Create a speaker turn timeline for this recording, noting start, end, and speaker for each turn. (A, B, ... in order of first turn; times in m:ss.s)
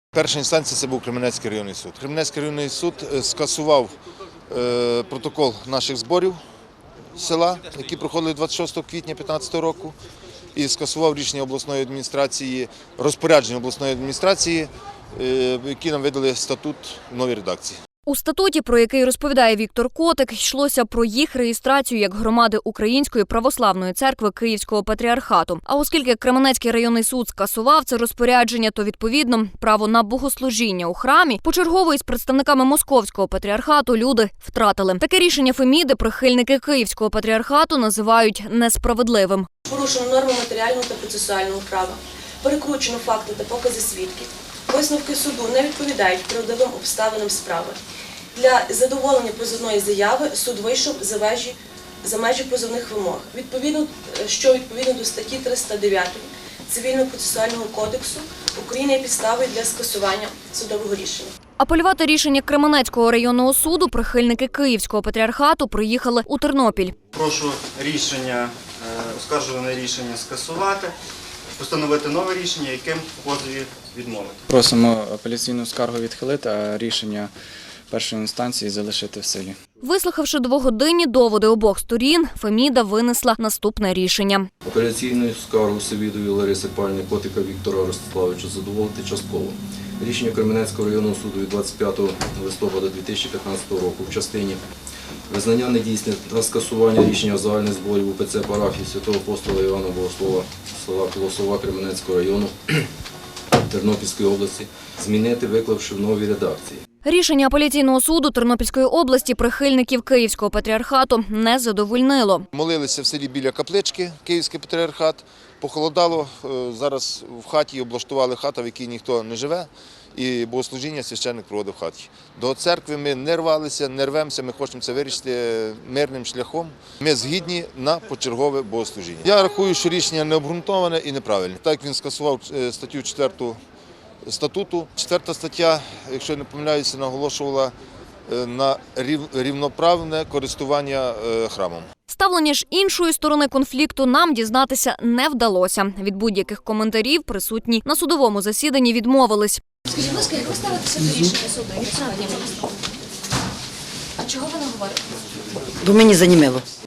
0:00.1-0:04.0 A
0:04.5-0:06.4 A
0:07.2-0:10.0 A
0:10.6-0:17.8 A
0:18.1-0:39.5 B
0:39.7-0:47.8 C
0:48.4-1:01.3 C
1:01.6-1:07.0 B
1:07.1-1:11.0 D
1:11.6-1:14.4 D
1:14.5-1:17.3 E
1:17.9-1:19.6 E
1:19.8-1:24.5 B
1:24.6-1:34.6 F
1:35.3-1:42.9 F
1:43.7-1:46.8 F
1:47.0-1:52.5 B
1:52.5-2:13.6 A
2:14.2-2:17.7 A
2:18.3-2:21.8 A
2:22.1-2:29.6 B
2:29.9-2:32.7 G
2:34.2-2:34.7 G
2:35.8-2:36.6 G